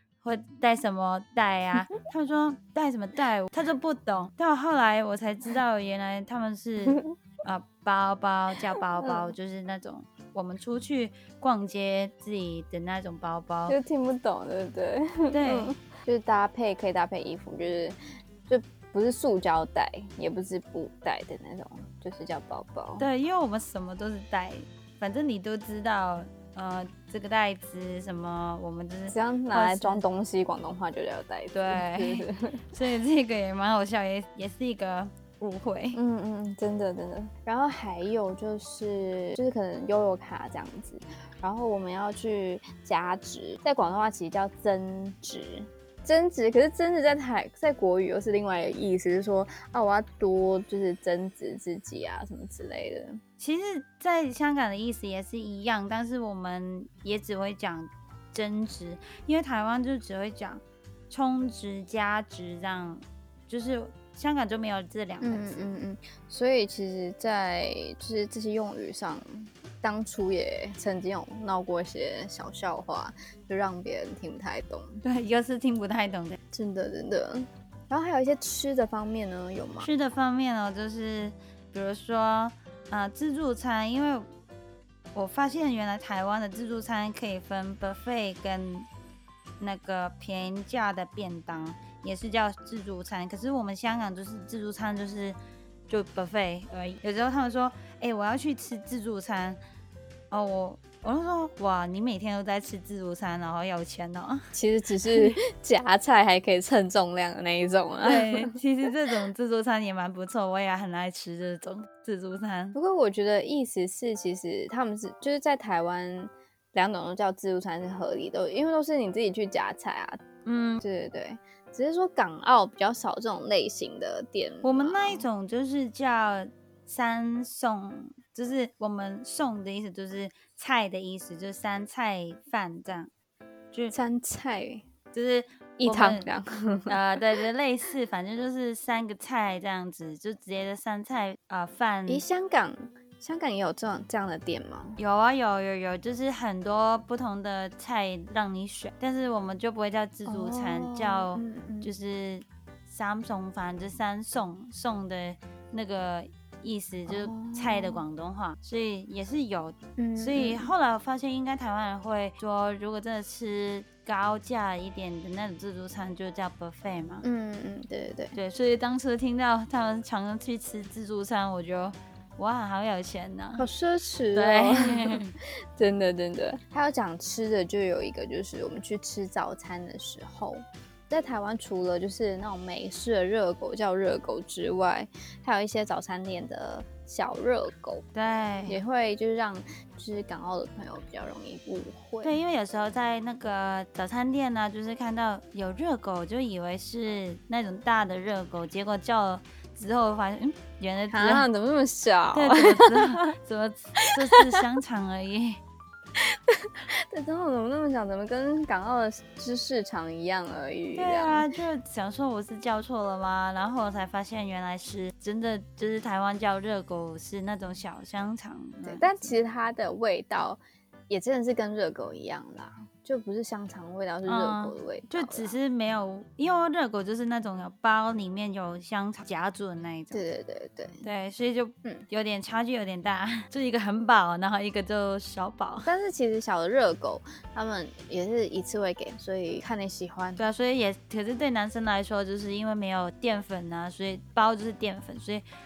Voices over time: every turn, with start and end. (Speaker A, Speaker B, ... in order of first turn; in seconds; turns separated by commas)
Speaker A: 0.2-13.8, Speaker B: 6.8-7.1, Speaker B: 9.0-9.3, Speaker B: 13.7-23.1, Speaker A: 15.3-15.7, Speaker A: 23.0-30.0, Speaker B: 29.1-32.6, Speaker A: 31.5-36.0, Speaker B: 35.9-53.2, Speaker A: 53.4-65.7, Speaker B: 65.2-75.0, Speaker A: 75.0-76.4, Speaker B: 76.5-79.9, Speaker A: 79.8-84.3, Speaker A: 85.1-88.9, Speaker A: 89.6-95.4, Speaker A: 95.9-99.6, Speaker A: 100.3-104.5, Speaker B: 104.5-108.6, Speaker A: 108.0-112.8, Speaker B: 112.7-120.2, Speaker A: 120.5-120.8, Speaker B: 120.8-125.3, Speaker A: 124.6-133.1, Speaker B: 133.9-134.8, Speaker A: 135.1-136.3, Speaker B: 135.8-137.0, Speaker A: 136.9-142.2, Speaker B: 142.1-145.0, Speaker A: 145.0-167.3, Speaker B: 150.3-151.9, Speaker B: 157.1-158.0, Speaker B: 160.0-160.7, Speaker B: 167.2-168.4, Speaker A: 168.3-173.7, Speaker B: 173.6-188.1, Speaker A: 174.3-175.3, Speaker A: 188.2-188.8, Speaker B: 188.7-192.3, Speaker A: 192.2-201.5, Speaker B: 201.1-203.3, Speaker A: 202.3-205.6, Speaker B: 204.0-204.4, Speaker B: 206.2-211.5, Speaker A: 211.0-219.3, Speaker B: 218.9-225.6, Speaker A: 224.3-230.3, Speaker B: 230.1-231.1, Speaker A: 231.0-235.9, Speaker B: 235.8-240.4, Speaker A: 240.4-245.4